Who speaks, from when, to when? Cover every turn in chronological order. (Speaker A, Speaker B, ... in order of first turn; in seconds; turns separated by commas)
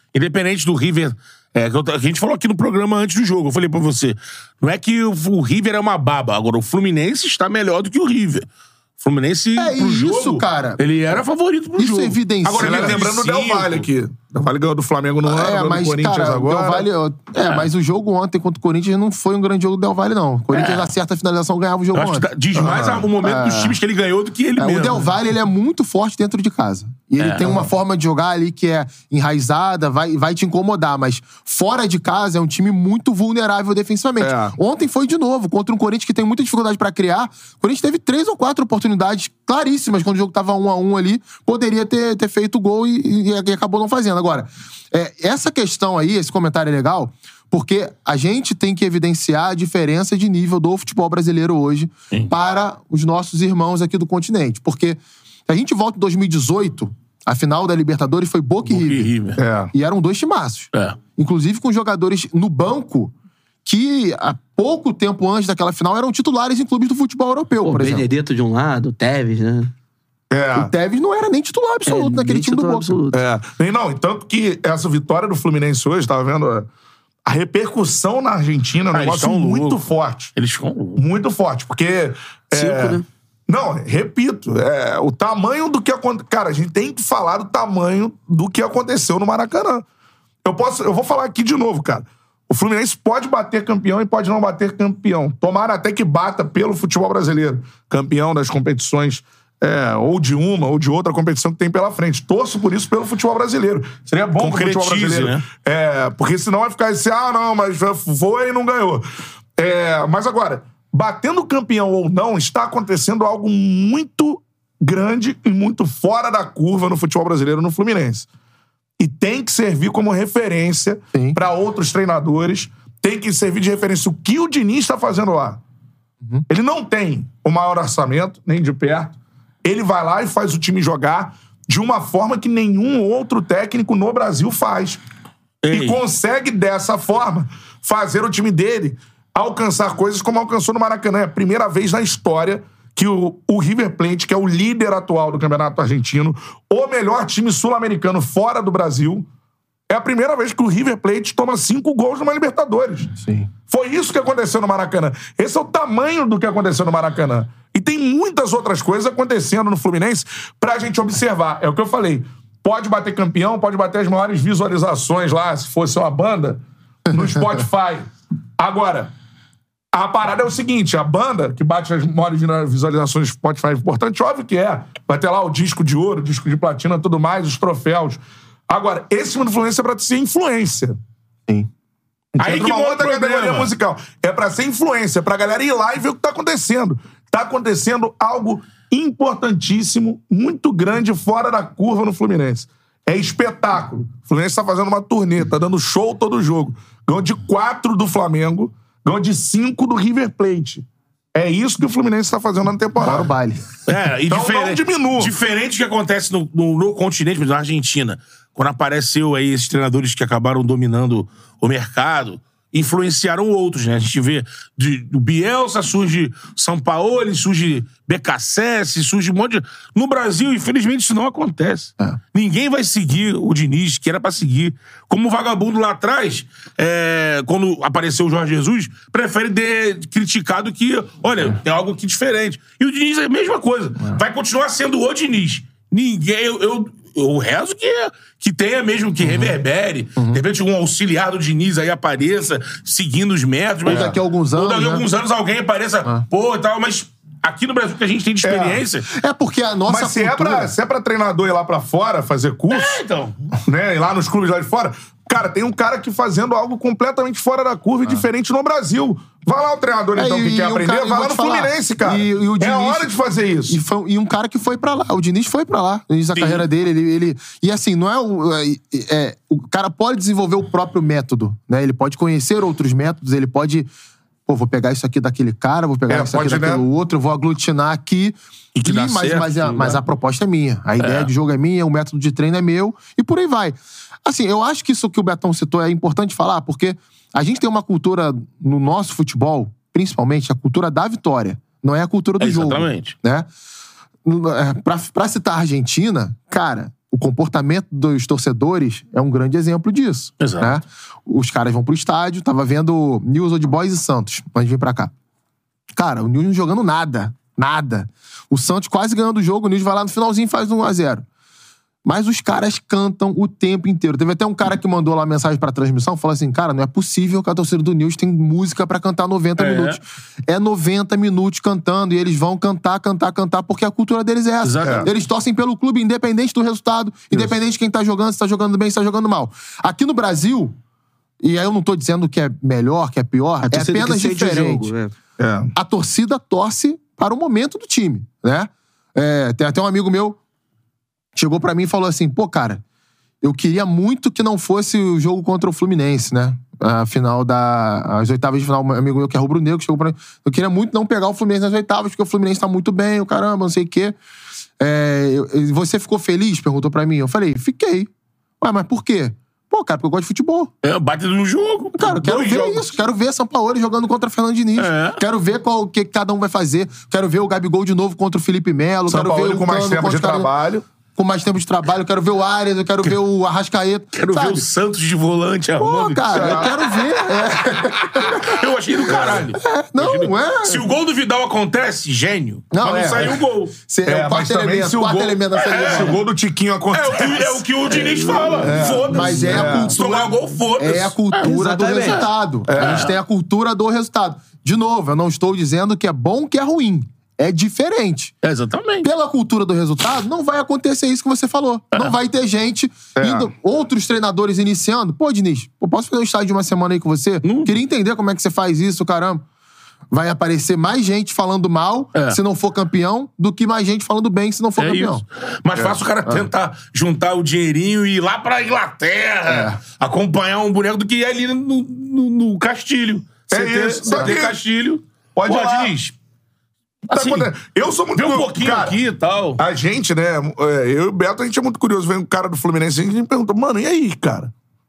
Speaker A: 0.1-8.4, Speaker A: 9.0-13.9, Speaker B: 9.6-10.8, Speaker B: 11.8-13.0, Speaker C: 12.6-16.9, Speaker B: 15.2-23.8, Speaker A: 20.5-20.9, Speaker A: 21.9-25.1, Speaker C: 22.5-23.1, Speaker B: 24.6-59.1, Speaker A: 27.2-27.6, Speaker C: 34.2-34.6, Speaker A: 58.6-59.4, Speaker C: 59.4-59.7, Speaker B: 59.7-63.1, Speaker B: 63.6-68.1, Speaker D: 67.6-69.7, Speaker C: 70.3-70.7, Speaker B: 70.5-73.0, Speaker D: 71.8-73.2, Speaker C: 73.1-76.7, Speaker C: 77.2-80.3, Speaker A: 78.9-81.0, Speaker C: 81.0-89.8, Speaker D: 82.5-83.0, Speaker C: 90.4-109.0, Speaker A: 104.3-105.4, Speaker C: 109.6-118.3, Speaker C: 119.0-125.6, Speaker B: 121.1-121.4, Speaker C: 126.5-135.0, Speaker A: 135.6-136.0, Speaker C: 135.7-149.2, Speaker C: 149.9-153.1, Speaker B: 153.2-153.5, Speaker C: 153.7-169.1, Speaker C: 169.9-181.0, Speaker C: 182.3-203.3, Speaker A: 182.4-183.7, Speaker B: 203.0-203.7, Speaker A: 203.8-249.1, Speaker C: 204.3-205.3, Speaker B: 239.2-239.6, Speaker B: 243.8-245.1, Speaker C: 243.9-244.1, Speaker C: 248.4-248.8, Speaker B: 249.1-250.7, Speaker C: 249.9-253.0, Speaker A: 252.7-253.5, Speaker C: 253.6-263.8, Speaker B: 260.1-263.1, Speaker B: 263.7-273.9, Speaker A: 266.3-266.6, Speaker B: 274.4-293.5, Speaker C: 276.1-276.8, Speaker A: 278.7-280.0, Speaker A: 281.0-281.3, Speaker A: 292.4-293.1, Speaker B: 294.2-305.1, Speaker A: 300.4-300.8, Speaker B: 305.9-311.2, Speaker B: 312.0-330.7, Speaker A: 319.6-320.0, Speaker A: 324.6-325.1, Speaker C: 324.8-325.1, Speaker B: 331.4-334.9, Speaker D: 333.6-335.1, Speaker C: 335.4-335.7, Speaker B: 335.7-340.4, Speaker B: 341.3-342.8, Speaker B: 343.4-354.1, Speaker B: 354.8-358.1, Speaker B: 358.6-360.7, Speaker A: 360.8-362.9, Speaker B: 362.0-370.5, Speaker A: 364.8-365.2, Speaker C: 369.1-370.8, Speaker B: 371.1-374.6, Speaker A: 374.1-383.7, Speaker B: 375.8-380.8, Speaker C: 376.3-376.7, Speaker C: 379.1-379.5, Speaker B: 382.7-386.2, Speaker C: 384.1-387.6, Speaker A: 385.6-386.2, Speaker A: 386.9-392.2, Speaker D: 387.9-388.8, Speaker B: 388.4-398.3, Speaker C: 388.6-390.0, Speaker D: 391.4-392.3, Speaker C: 392.7-393.1, Speaker A: 392.8-393.1, Speaker A: 398.4-399.1, Speaker B: 399.0-409.4, Speaker C: 403.1-403.5, Speaker A: 407.4-407.7, Speaker B: 410.1-415.2, Speaker A: 414.8-426.1, Speaker B: 419.4-419.8, Speaker C: 423.5-424.6, Speaker C: 425.3-425.9, Speaker A: 427.1-427.5, Speaker C: 427.1-429.0, Speaker A: 428.1-429.6, Speaker C: 429.6-434.5